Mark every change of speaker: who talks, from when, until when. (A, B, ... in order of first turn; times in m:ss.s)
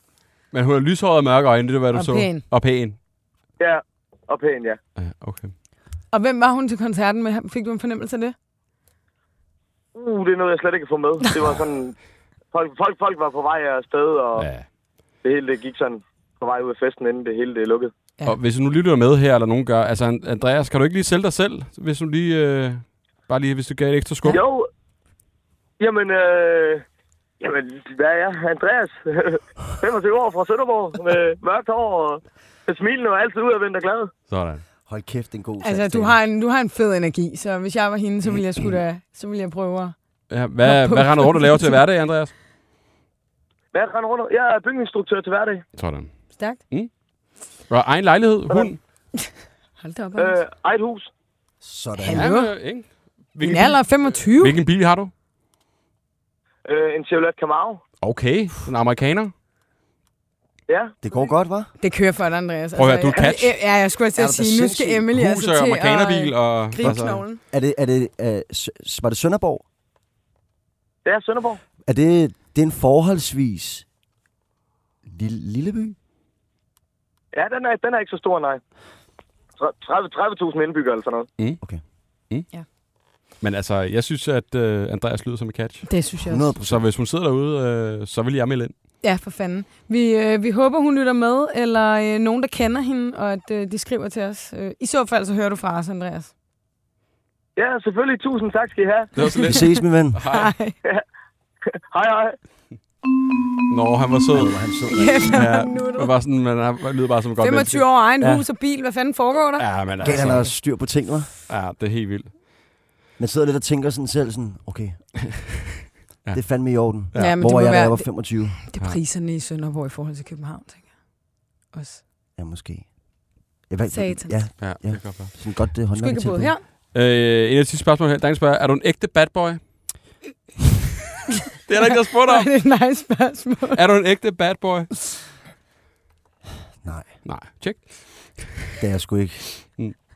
0:00.5-0:03.0 A
0:01.9-0:02.4 B
0:03.6-0:04.8 C
0:05.0-0:05.5 A
0:06.1-0:08.3 B
0:09.9-0:12.0 C
0:12.5-0:14.5 C
0:14.4-0:14.7 A
0:15.2-0:17.9 C
0:18.2-0:24.4 A
0:24.3-0:24.7 C
0:25.8-0:26.8 C
0:27.4-0:34.1 C
0:34.3-0:34.6 A
0:34.8-0:36.2 D
0:35.6-0:39.9 B
0:40.3-0:42.3 A
0:40.6-0:41.8 B
0:43.7-0:45.6 C
0:45.8-0:46.1 A
0:46.4-0:46.6 B
0:46.6-0:46.9 A
0:47.7-0:48.8 A
0:49.2-0:50.4 B
0:50.2-0:51.1 C
0:51.6-0:52.3 D
0:52.0-0:52.5 B
0:52.1-0:55.1 A
0:53.4-0:54.6 B
0:56.6-0:57.8 C
0:58.0-0:59.3 A
1:00.7-1:01.0 C
1:01.0-1:01.7 D
1:01.8-1:07.4 B
1:02.7-1:03.6 A
1:04.1-1:05.0 D
1:05.1-1:07.2 A
1:06.8-1:09.6 D
1:11.0-1:11.6 C
1:11.8-1:13.8 D
1:15.0-1:16.0 D
1:17.3-1:18.6 C
1:19.6-1:21.3 C
1:23.4-1:26.0 A
1:25.8-1:26.5 B
1:26.2-1:26.9 D
1:26.6-1:28.7 A
1:29.0-1:36.3 B
1:37.6-1:39.1 C
1:39.2-1:40.5 A
1:39.2-1:40.8 B
1:39.4-1:40.2 D
1:41.9-1:42.4 C
1:43.7-1:44.6 A
1:44.3-1:45.4 D
1:44.9-1:46.1 B
1:45.3-1:48.4 A
1:47.4-1:50.5 B
1:49.6-1:50.7 A
1:50.0-1:51.3 D
1:51.5-1:52.4 A
1:53.2-1:55.2 D
1:56.3-1:58.6 D
1:56.9-1:57.4 A
1:57.1-2:01.1 B
2:01.7-2:02.0 B
2:02.4-2:06.5 D
2:03.9-2:04.4 B
2:04.6-2:05.3 A
2:05.9-2:06.6 B
2:06.9-2:09.9 A
2:11.5-2:12.5 A
2:12.1-2:13.8 B
2:13.7-2:14.9 A
2:16.8-2:17.2 D
2:17.2-2:18.6 A
2:18.8-2:19.8 D